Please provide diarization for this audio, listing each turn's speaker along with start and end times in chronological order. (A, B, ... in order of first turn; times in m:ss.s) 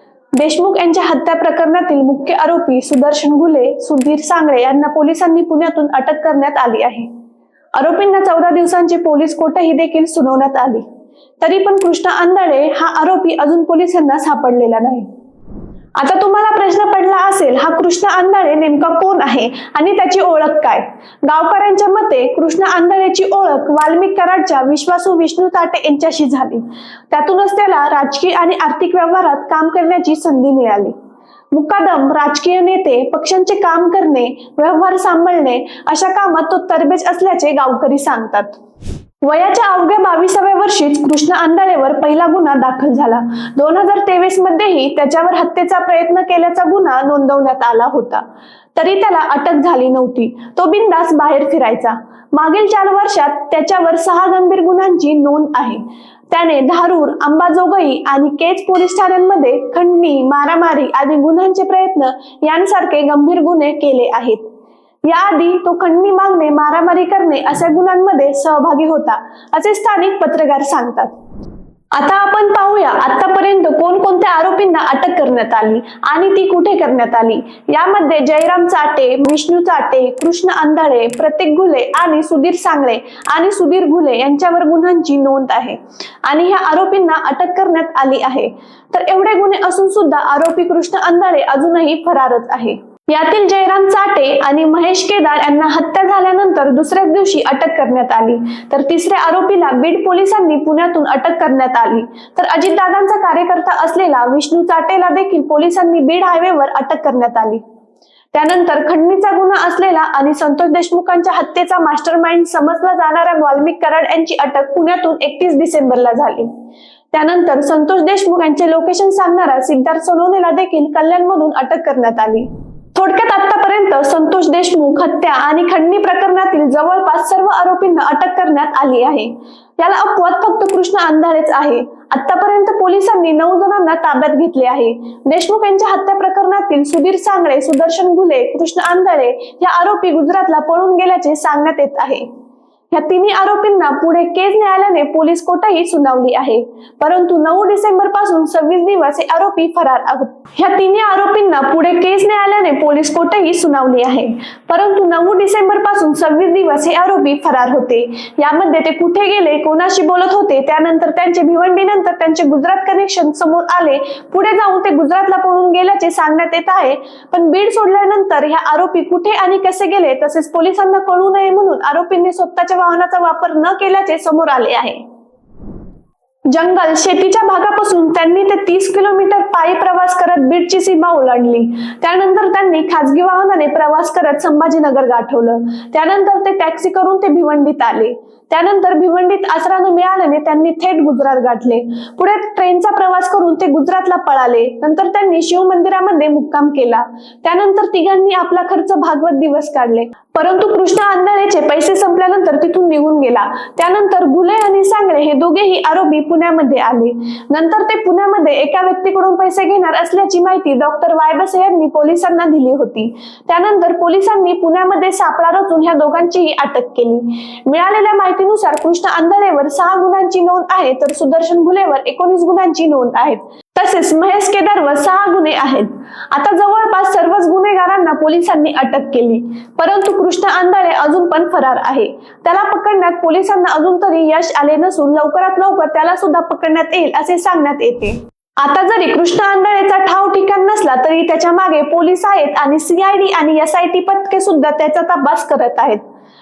0:00.4-0:07.1 A
0:07.7-0:10.8 A
0:11.4-0:15.1 A
0:16.0-0:30.9 A
0:31.5-0:38.6 A
0:39.2-0:48.2 A
0:48.8-1:04.5 A
1:05.0-1:11.1 A
1:11.9-1:47.6 A
1:48.3-1:56.5 A
1:57.1-2:22.2 A
2:22.9-2:55.0 A
2:56.5-4:06.0 A